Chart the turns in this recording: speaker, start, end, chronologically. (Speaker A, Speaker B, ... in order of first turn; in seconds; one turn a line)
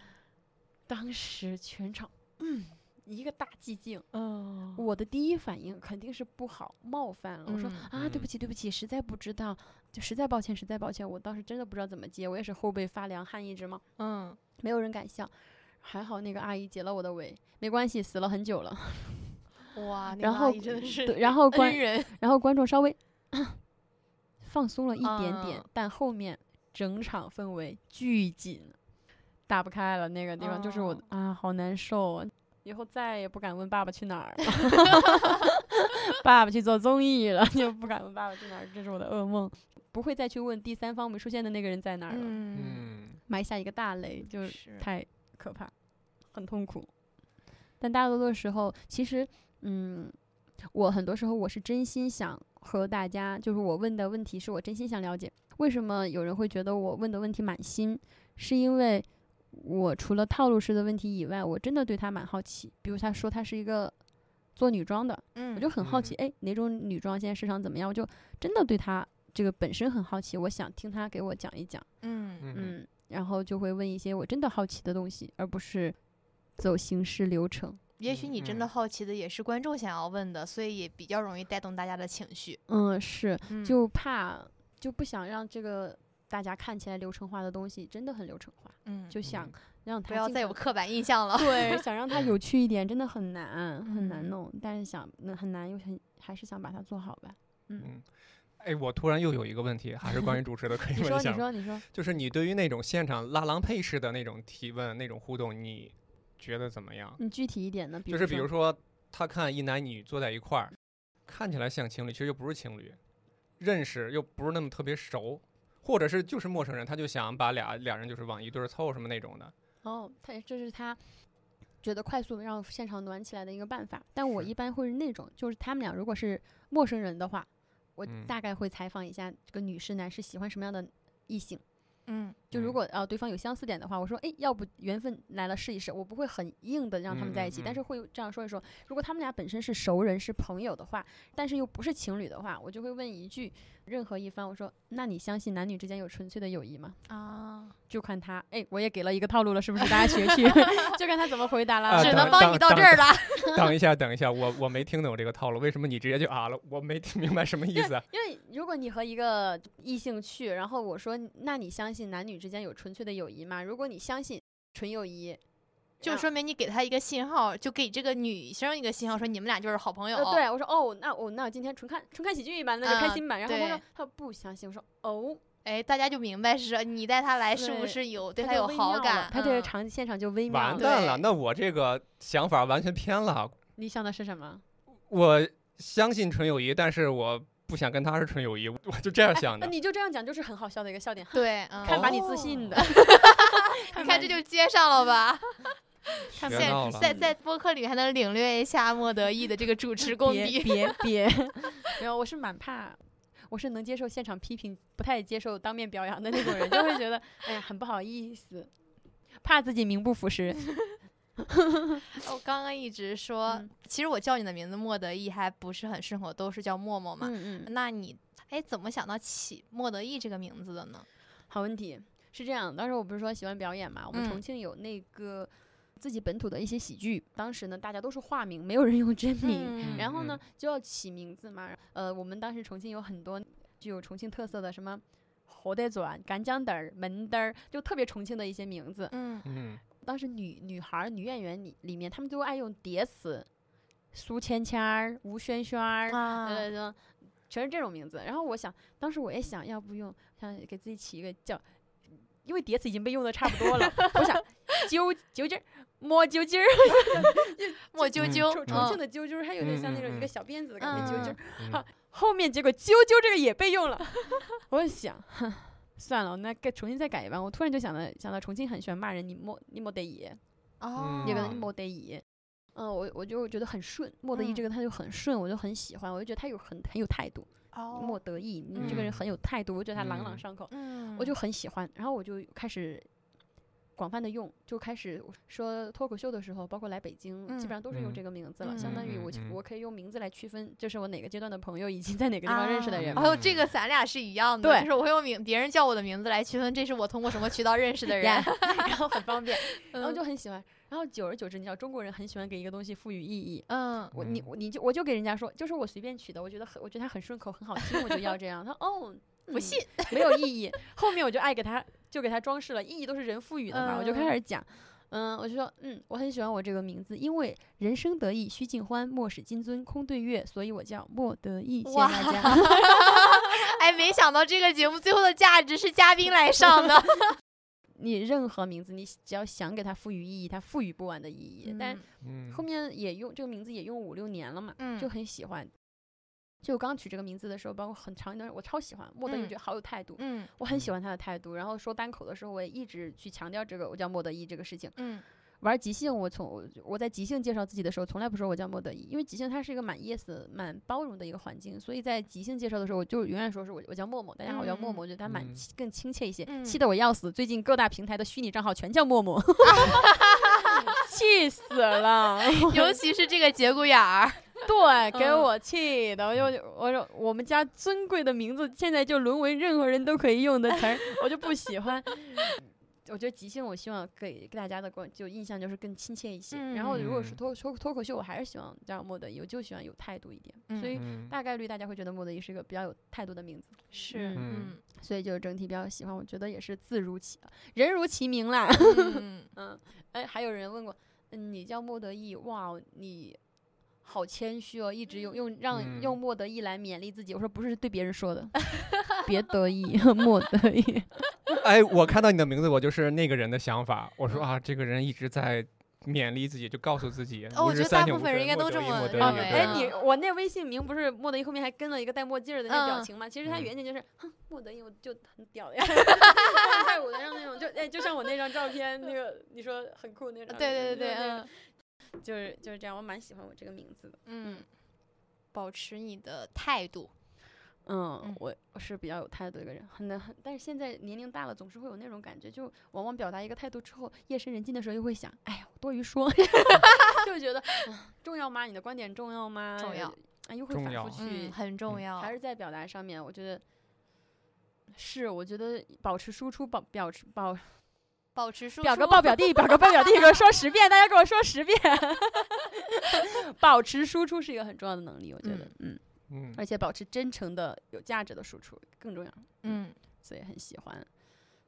Speaker A: 0.9-4.1
Speaker B: 4.1-4.8
Speaker A: 4.7-13.8
Speaker B: 7.5-7.9
Speaker C: 8.0-8.3
Speaker B: 14.0-14.4
Speaker A: 14.6-19.4
Speaker B: 19.7-22.1
Speaker A: 20.2-23.6
Speaker A: 24.4-28.8
Speaker B: 25.0-25.6
Speaker A: 29.5-42.4
Speaker B: 30.4-31.0
Speaker B: 42.1-42.9
Speaker C: 42.5-43.2
Speaker A: 43.3-45.7
Speaker B: 44.2-44.9
Speaker A: 46.3-46.9
Speaker A: 47.8-50.2
Speaker A: 50.7-63.9
Speaker A: 64.6-71.9
Speaker B: 65.3-65.7
Speaker C: 65.8-66.1
Speaker B: 72.0-72.5
Speaker C: 72.4-72.7
Speaker A: 72.5-76.0
Speaker A: 76.6-77.8
Speaker B: 78.0-82.6
Speaker C: 78.1-78.7
Speaker A: 82.7-90.6
Speaker B: 83.5-83.7
Speaker B: 88.8-89.2
Speaker C: 89.2-89.5
Speaker B: 90.1-91.8
Speaker A: 91.3-97.9
Speaker B: 93.9-94.3
Speaker C: 97.8-98.0
Speaker C: 98.6-107.2
Speaker A: 100.9-101.8
Speaker A: 107.2-108.5
Speaker C: 108.1-110.7
Speaker C: 111.3-113.0
Speaker C: 113.6-119.5
Speaker A: 119.8-121.0
Speaker A: 121.8-131.6
Speaker B: 132.1-132.4
Speaker A: 132.5-147.0
Speaker C: 132.5-132.8
Speaker C: 137.1-137.8
Speaker B: 147.1-147.7
Speaker A: 147.9-152.5
Speaker B: 150.3-150.9
Speaker C: 151.9-158.0
Speaker B: 151.9-153.6
Speaker A: 157.7-165.4
Speaker B: 166.0-170.4
Speaker A: 170.1-175.4
Speaker B: 172.8-173.8
Speaker B: 175.7-179.7
Speaker A: 177.6-181.0
Speaker C: 180.5-183.6
Speaker B: 180.8-181.2
Speaker A: 183.8-184.6
Speaker C: 185.1-189.7
Speaker A: 189.6-194.4
Speaker B: 191.3-195.7
Speaker C: 191.8-192.2
Speaker A: 196.3-197.3
Speaker B: 196.4-201.0
Speaker C: 196.4-197.1
Speaker A: 200.1-208.7
Speaker A: 209.4-210.8
Speaker A: 211.5-212.0
Speaker B: 212.2-221.1
Speaker A: 217.2-217.7
Speaker A: 221.5-239.1
Speaker B: 224.1-224.4
Speaker B: 229.4-230.1
Speaker C: 229.8-230.4
Speaker B: 239.1-239.4
Speaker C: 239.4-239.8
Speaker A: 240.0-243.5
Speaker A: 244.1-270.4
Speaker B: 246.1-246.7
Speaker B: 257.9-259.0
Speaker C: 258.2-258.9
Speaker C: 259.6-260.3
Speaker B: 260.8-261.4
Speaker C: 260.9-261.8
Speaker B: 270.8-271.6
Speaker C: 270.9-271.6
Speaker A: 271.2-272.2
Speaker A: 272.7-283.1
Speaker B: 274.4-274.6
Speaker B: 277.7-278.2
Speaker B: 278.7-279.1
Speaker C: 278.8-279.2
Speaker C: 279.9-280.4
Speaker B: 280.7-281.3
Speaker A: 283.9-293.2
Speaker B: 287.5-287.7
Speaker C: 287.9-288.2
Speaker B: 288.6-289.1
Speaker C: 288.7-289.6
Speaker B: 292.4-298.8
Speaker C: 293.0-293.6
Speaker A: 294.6-294.9
Speaker A: 298.2-322.9
Speaker B: 299.9-300.2
Speaker B: 303.7-304.1
Speaker C: 304.1-304.4
Speaker B: 309.5-310.4
Speaker B: 313.7-314.3
Speaker B: 321.9-327.4
Speaker A: 327.9-335.7
Speaker B: 331.6-332.0
Speaker C: 332.2-332.6
Speaker B: 334.8-335.1
Speaker A: 336.6-345.0
Speaker B: 339.3-339.6
Speaker B: 340.1-340.5
Speaker B: 344.9-345.2
Speaker A: 345.6-362.9
Speaker B: 354.5-355.0
Speaker C: 355.3-355.6
Speaker B: 356.5-356.8
Speaker B: 359.7-360.6
Speaker B: 362.7-365.4
Speaker A: 364.6-393.4
Speaker B: 376.5-377.1
Speaker C: 376.9-377.4
Speaker B: 380.7-380.9
Speaker C: 380.9-381.3
Speaker B: 383.9-384.8
Speaker C: 384.4-384.7
Speaker B: 388.8-389.5
Speaker A: 394.0-401.1
Speaker C: 395.7-396.1
Speaker C: 401.6-409.8
Speaker B: 407.5-409.9
Speaker A: 409.1-424.6
Speaker B: 412.7-413.1
Speaker B: 420.5-421.5
Speaker B: 424.3-424.6
Speaker B: 425.5-427.1
Speaker A: 427.9-441.6
Speaker B: 439.8-440.1
Speaker C: 440.7-441.2
Speaker B: 441.2-442.3
Speaker A: 442.1-443.6
Speaker A: 444.9-447.7
Speaker B: 448.4-449.8
Speaker A: 448.8-456.0
Speaker B: 455.4-455.7
Speaker C: 456.3-456.6
Speaker A: 456.5-461.1
Speaker B: 459.6-459.9